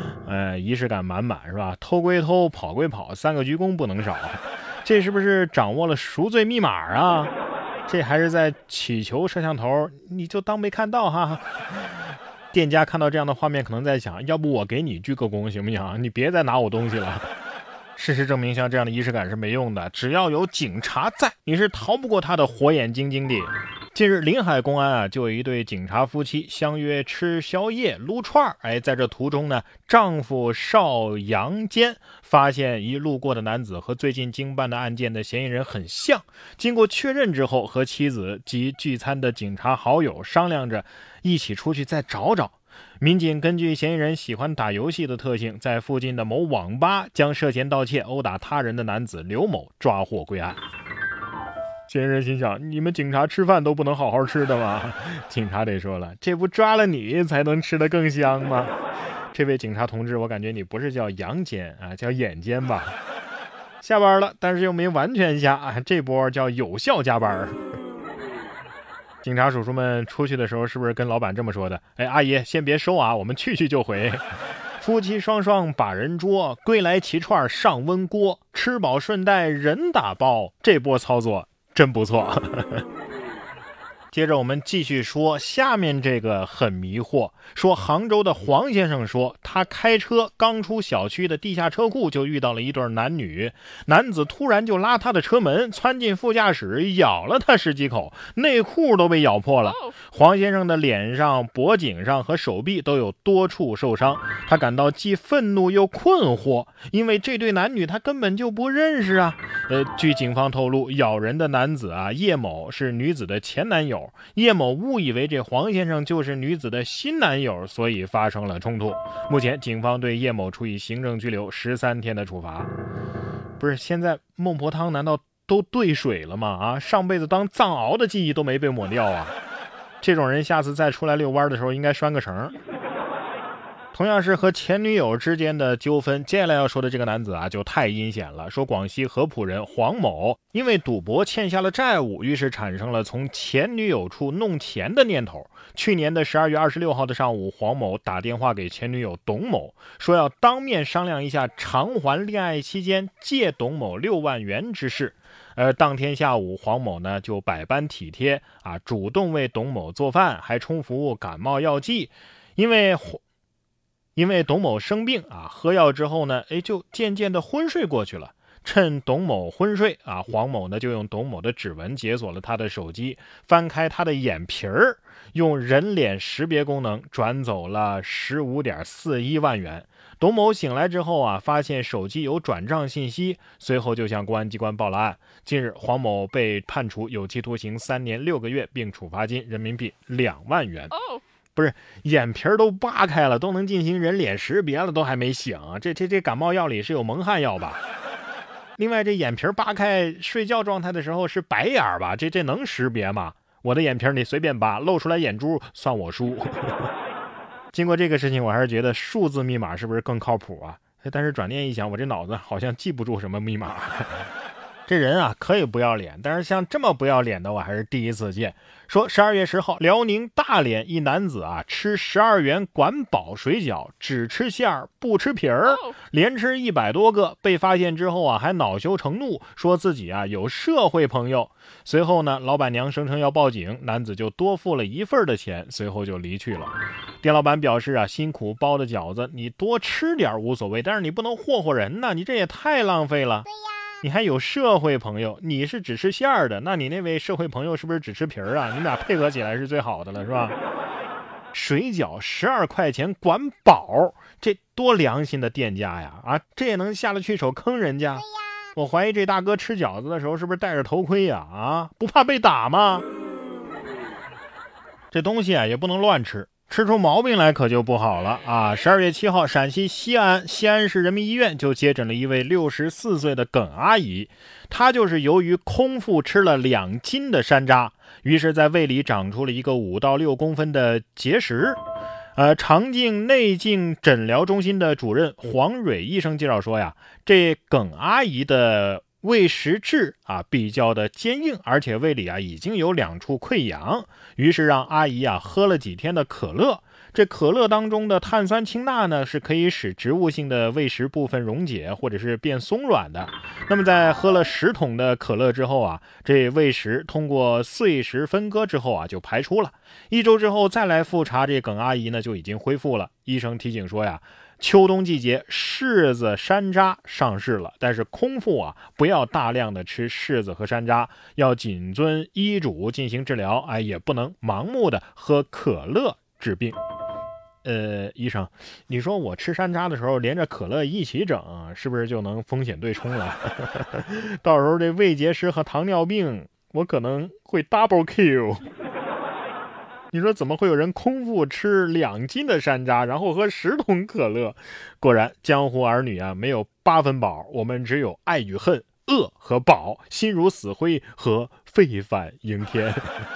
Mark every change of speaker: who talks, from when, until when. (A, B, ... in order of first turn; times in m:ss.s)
0:00.2-0:07.3 A
0:07.9-0:11.5 A
0:12.5-0:17.3 A
0:18.0-0:50.6 A
0:51.9-0:58.8 A
0:59.3-1:03.0 A
1:03.8-1:07.6 A
1:09.2-1:14.3 A
1:14.8-1:22.9 A
1:24.1-2:02.7 A
2:03.6-2:09.4 A
2:10.0-2:12.6 A
2:13.9-2:43.2 A
2:44.2-3:10.9 A
3:11.6-3:17.8 A
3:18.8-3:26.9 A
3:27.7-3:34.2 A
3:34.9-4:03.5 A
4:04.0-4:10.6 A
4:11.5-4:23.1 A
4:25.1-4:41.8 A
4:42.4-5:26.8 A
5:27.6-5:38.7 A
5:40.1-5:53.1 A